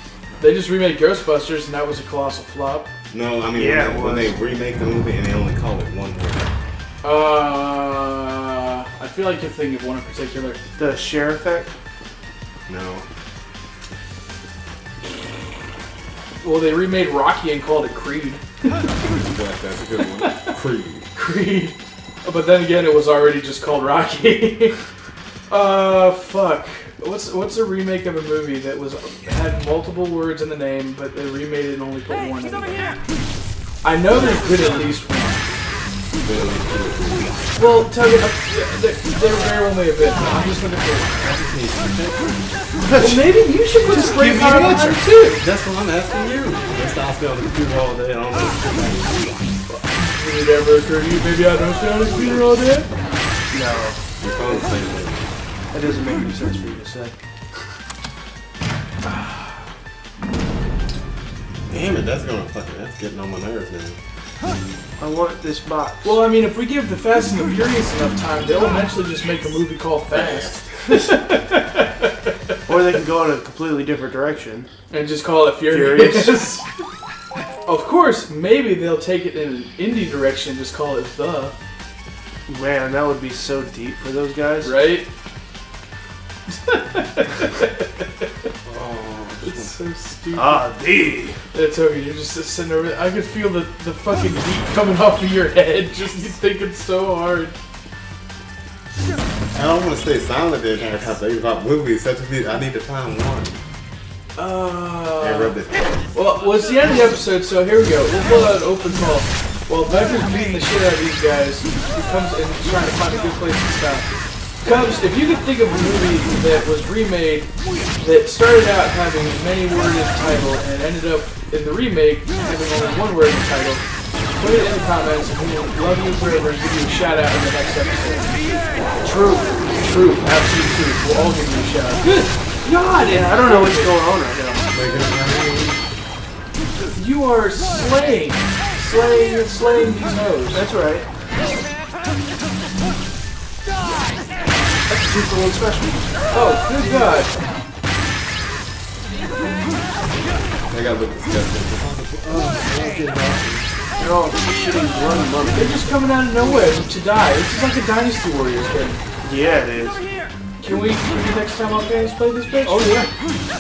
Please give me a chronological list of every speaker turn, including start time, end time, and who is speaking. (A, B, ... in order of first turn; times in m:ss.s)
0:00.4-0:02.9 A
0:03.1-0:06.5 B
0:03.5-0:04.4 C
0:07.0-0:10.6 A
0:10.8-0:11.7 C
0:12.7-0:13.0 B
0:16.4-0:18.9 A
0:19.0-0:21.1 B
0:21.1-0:24.8 A
0:25.5-0:33.0 A
0:33.8-0:35.4 A
0:36.2-0:37.5 B
0:37.5-0:41.4 A
0:41.2-0:42.5 B
0:42.8-0:43.3 C
0:43.0-0:45.4 A
0:43.8-0:45.0 C
0:45.4-0:49.4 B
0:49.7-0:52.9 A
0:53.5-0:54.7 C
0:54.2-0:55.3 B
0:55.7-0:57.1 C
0:59.0-0:59.6 A
1:01.7-1:04.0 B
1:05.0-1:06.2 C
1:06.0-1:12.3 A
1:10.1-1:10.7 B
1:12.6-1:14.7 C
1:14.9-1:16.7 A
1:15.7-1:16.4 C
1:17.6-1:21.5 A
1:22.5-1:24.7 C
1:24.6-1:25.1 A
1:26.5-1:28.3 A
1:28.6-1:29.7 B
1:29.4-1:30.7 A
1:30.3-1:31.4 C
1:31.5-1:37.5 A
1:39.5-1:43.6 B
1:44.4-1:45.6 A
1:45.2-1:46.0 B
1:46.1-1:54.1 A
1:54.6-2:03.8 A
2:04.4-2:08.3 A
2:09.0-2:09.7 C
2:09.7-2:13.9 A
2:13.0-2:14.6 C
2:14.7-2:15.8 B
2:16.9-2:20.6 A
2:20.5-2:21.1 C
2:24.9-2:26.1 C
2:26.3-2:27.3 A
2:30.7-2:33.6 B
2:32.2-2:35.8 C
2:35.5-2:39.0 A
2:39.2-2:40.0 C
2:40.6-2:42.9 A
2:42.6-2:43.1 C